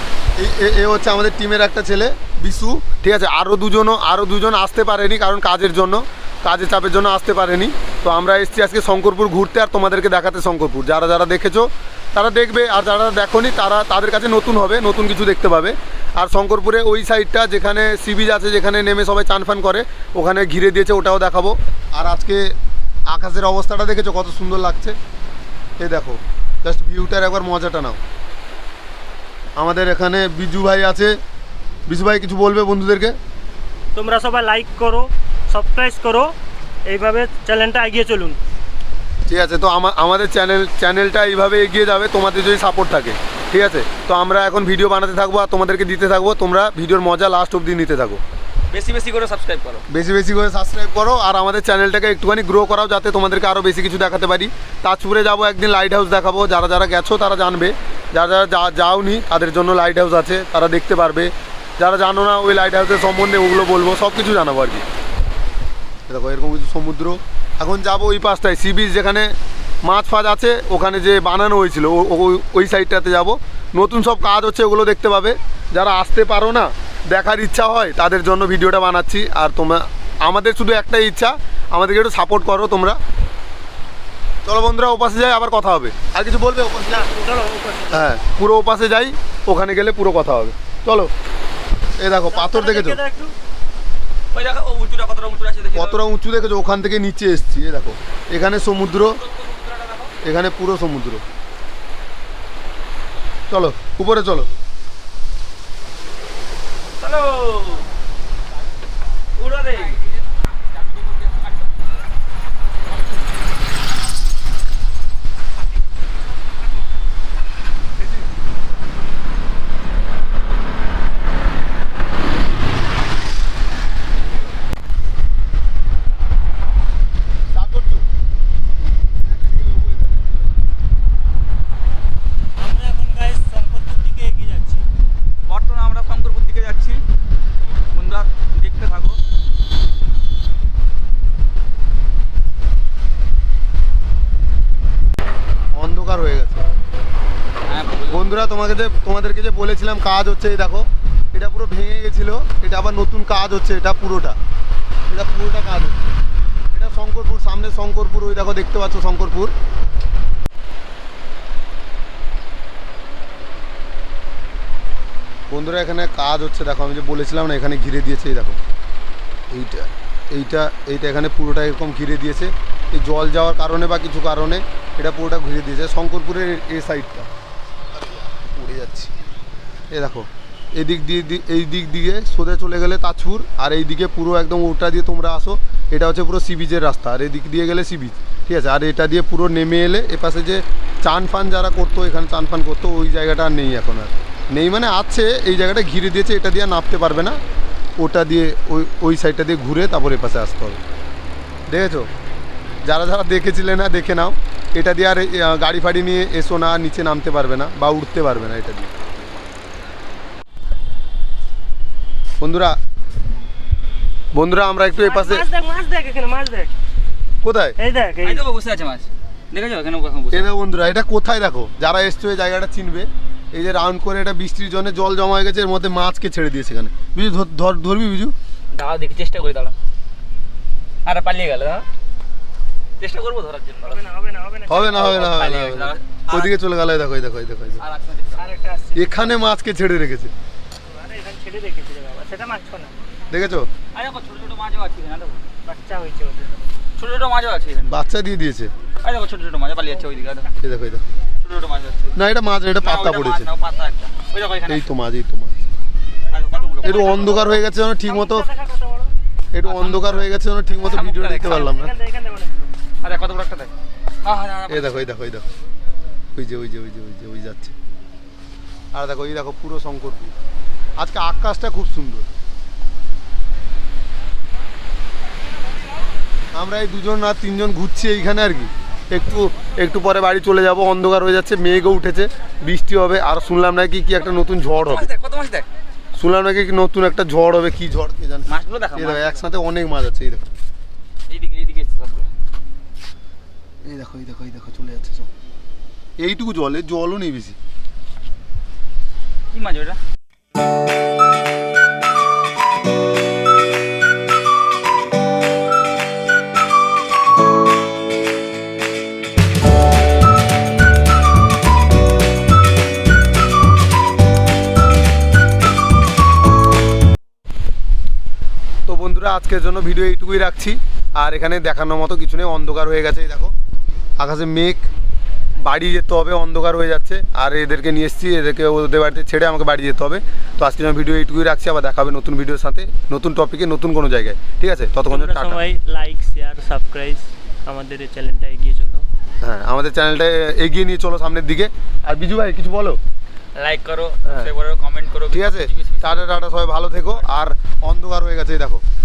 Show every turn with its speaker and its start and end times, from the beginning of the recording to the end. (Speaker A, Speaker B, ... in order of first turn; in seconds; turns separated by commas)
Speaker A: 0.3-22.5, Speaker A: 23.1-25.0, Speaker A: 25.8-28.0, Speaker A: 29.6-31.2, Speaker A: 31.9-33.2, Speaker B: 34.0-36.3, Speaker B: 36.9-38.4, Speaker A: 39.3-48.2, Speaker C: 48.7-49.9, Speaker A: 49.9-64.8, Speaker A: 66.1-83.0, Speaker A: 84.5-87.1, Speaker B: 86.9-88.1, Speaker A: 87.9-91.1, Speaker A: 92.0-93.0, Speaker B: 92.3-93.3, Speaker C: 94.3-96.1, Speaker A: 95.7-99.2, Speaker C: 98.8-100.1, Speaker A: 100.2-101.2, Speaker A: 103.5-104.5, Speaker C: 107.0-107.9, Speaker C: 109.3-111.9, Speaker A: 127.5-128.1, Speaker A: 129.2-130.5, Speaker B: 132.6-134.9, Speaker C: 135.5-137.0, Speaker C: 137.9-139.2, Speaker A: 145.7-146.7, Speaker C: 147.6-148.4, Speaker A: 148.1-154.4, Speaker A: 155.1-156.0, Speaker A: 156.7-159.5, Speaker A: 165.5-168.6, Speaker A: 169.5-177.3, Speaker A: 177.9-179.1, Speaker A: 179.9-197.4, Speaker A: 198.0-200.8, Speaker A: 201.7-202.1, Speaker A: 202.8-208.9, Speaker A: 212.4-212.8, Speaker A: 214.3-215.5, Speaker B: 215.0-216.7, Speaker A: 217.4-217.8, Speaker B: 217.8-218.4, Speaker C: 218.2-220.5, Speaker A: 220.3-228.3, Speaker C: 228.7-229.7, Speaker C: 231.1-231.9, Speaker C: 233.0-234.0, Speaker B: 233.9-235.1, Speaker A: 234.7-237.8, Speaker C: 234.9-236.5, Speaker C: 237.8-238.5, Speaker B: 238.3-239.4, Speaker A: 238.9-240.3, Speaker B: 240.9-242.9, Speaker A: 243.3-243.7, Speaker C: 243.9-245.4, Speaker B: 245.7-246.5, Speaker C: 247.0-248.0, Speaker A: 247.9-248.7, Speaker C: 249.0-250.5, Speaker A: 250.6-251.1, Speaker C: 251.4-252.2, Speaker A: 252.2-253.5, Speaker C: 252.8-254.9, Speaker A: 254.7-255.7, Speaker C: 256.3-257.5, Speaker A: 256.8-258.5, Speaker B: 257.1-257.4, Speaker B: 258.1-259.1, Speaker A: 259.5-261.9, Speaker C: 259.6-260.3, Speaker C: 260.8-261.7, Speaker B: 261.4-262.7, Speaker C: 263.0-265.1, Speaker A: 264.7-265.5, Speaker A: 266.4-267.8, Speaker A: 268.9-270.3, Speaker A: 271.0-272.3, Speaker A: 276.5-285.1, Speaker C: 284.8-285.7, Speaker A: 286.2-290.4, Speaker C: 288.5-289.4, Speaker C: 291.3-292.3, Speaker A: 293.8-295.3, Speaker A: 296.2-297.6, Speaker C: 299.5-300.0, Speaker A: 318.9-323.5, Speaker A: 324.2-324.9, Speaker A: 325.6-335.7, Speaker B: 335.1-339.1, Speaker A: 339.4-343.0, Speaker C: 343.6-346.3, Speaker A: 345.3-348.8